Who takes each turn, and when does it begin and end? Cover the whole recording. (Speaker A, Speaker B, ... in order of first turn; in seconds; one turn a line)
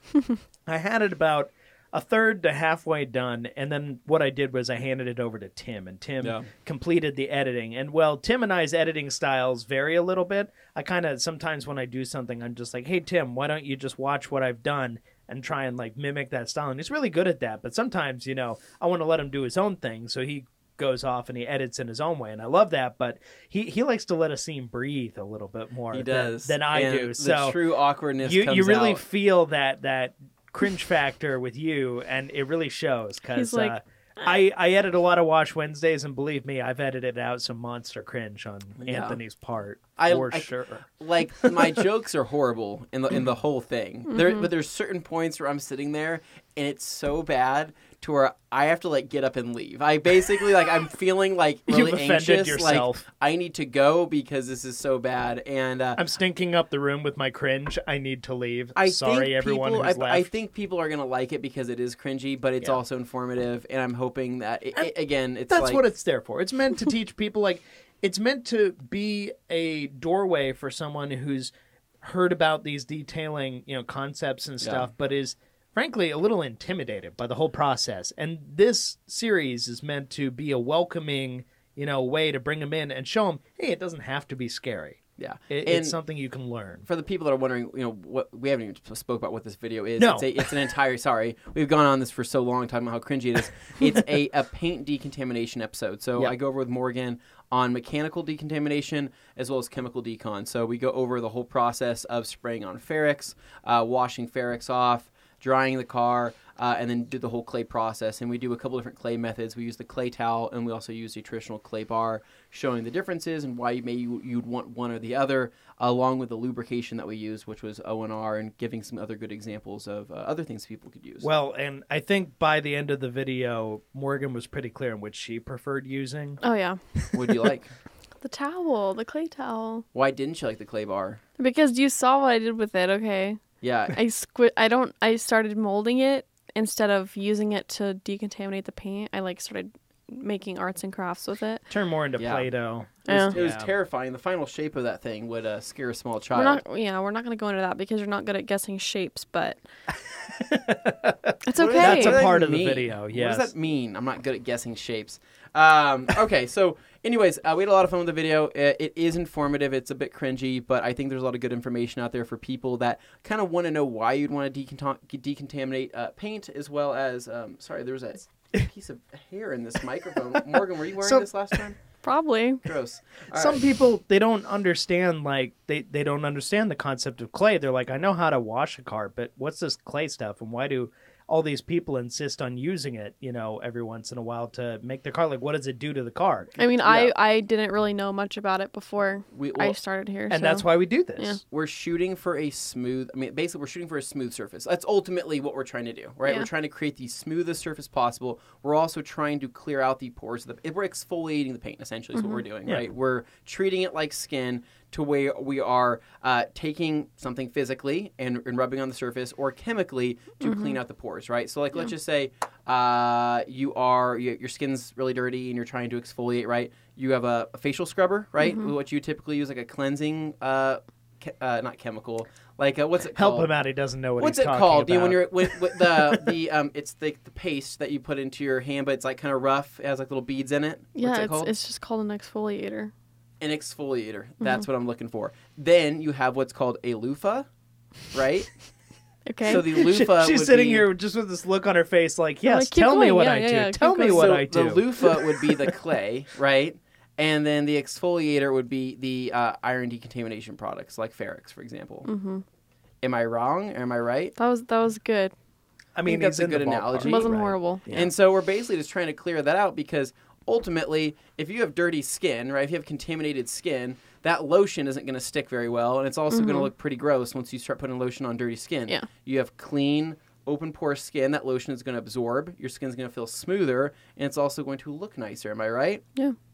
Speaker A: 0.7-27.6
Speaker B: 6.2-6.5
Speaker B: 25.9-29.0
Speaker A: 28.2-41.8
Speaker C: 33.3-34.4
Speaker B: 38.8-39.2
Speaker B: 40.0-56.0
Speaker A: 51.7-53.0
Speaker A: 56.0-60.3
Speaker B: 58.8-65.8
Speaker A: 65.5-86.8
Speaker B: 74.6-74.9
Speaker B: 85.2-86.0
Speaker B: 86.8-121.2
Speaker A: 90.0-90.5
Speaker A: 121.2-126.4
Speaker C: 126.4-126.8
Speaker B: 127.1-127.7
Speaker C: 128.2-129.8
Speaker B: 129.9-131.2
Speaker C: 131.4-141.6
Speaker B: 133.6-134.0
Speaker A: 141.7-143.7
Speaker B: 142.2-142.5
Speaker B: 143.0-146.6
Speaker C: 143.1-143.3
Speaker C: 146.3-149.6
Speaker A: 150.2-153.5
Speaker C: 151.4-152.2
Speaker B: 151.6-171.8
Speaker C: 172.0-172.6
Speaker B: 172.6-173.6
Speaker A: 173.3-186.6
Speaker C: 186.6-190.7
Speaker B: 186.8-187.1
Speaker B: 189.3-189.8
Speaker A: 190.3-191.4
Speaker B: 191.5-223.5
Speaker C: 202.2-202.4
Speaker C: 210.4-210.8
Speaker C: 218.4-218.7
Speaker A: 223.2-226.3
Speaker B: 224.2-231.5
Speaker C: 230.9-232.9
Speaker B: 233.4-237.5
Speaker B: 238.1-238.6
Speaker C: 239.2-239.6
Speaker B: 239.4-240.9
Speaker A: 239.6-245.7
Speaker C: 242.4-244.4
Speaker B: 244.0-252.1
Speaker C: 252.1-252.4
Speaker B: 253.0-254.3
Speaker C: 254.4-255.3
Speaker A: 255.9-258.1
Speaker B: 256.1-276.0
Speaker C: 257.0-257.8
Speaker C: 266.3-266.7